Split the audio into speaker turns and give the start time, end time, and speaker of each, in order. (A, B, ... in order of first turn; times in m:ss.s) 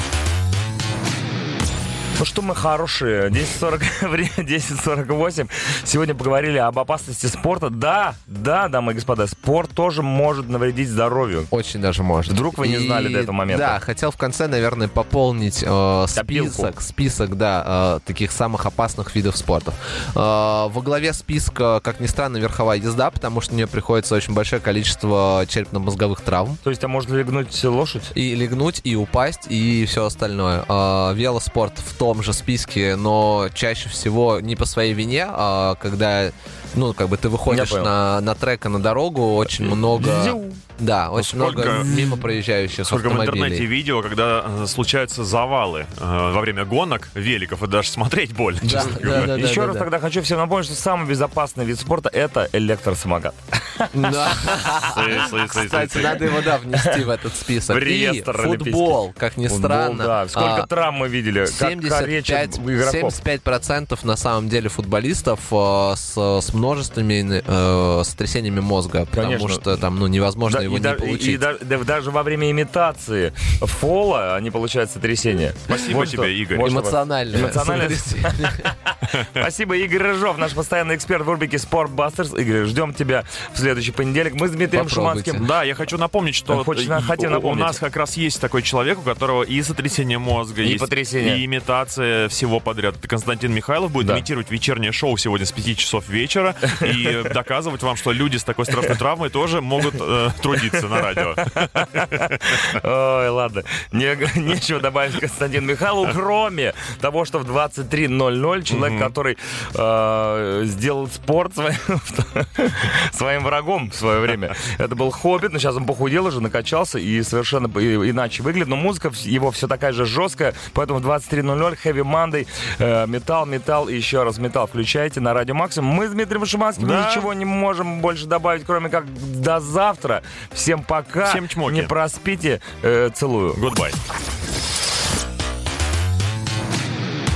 0:02.2-0:11.5 A
0:11.5-0:26.6 B
0:12.3-0:13.8 A
0:16.1-0:16.7 A
0:26.6-0:28.1 A
0:28.1-0:43.7 B
0:37.5-0:37.9 A
0:39.5-0:40.6 A
0:41.2-0:42.0 C
0:41.6-0:42.3 A
0:42.7-0:49.3 C
0:48.6-0:49.9 B
0:48.7-0:57.0 A
0:53.9-1:00.7 B
0:54.9-0:55.9 C
0:57.7-1:03.2 A
1:01.4-1:11.4 B
1:09.1-1:09.8 A
1:10.4-1:25.4 A
1:15.7-1:16.8 C
1:16.6-1:18.7 B
1:19.1-1:19.4 C
1:24.7-1:25.5 B
1:25.4-1:42.6 C
1:26.5-1:27.8 A
1:30.6-1:31.4 A
1:34.0-1:34.2 A
1:41.0-2:13.6 A
1:48.7-1:49.1 C
2:06.8-2:07.3 C
2:11.2-2:12.0 C
2:13.5-2:14.0 C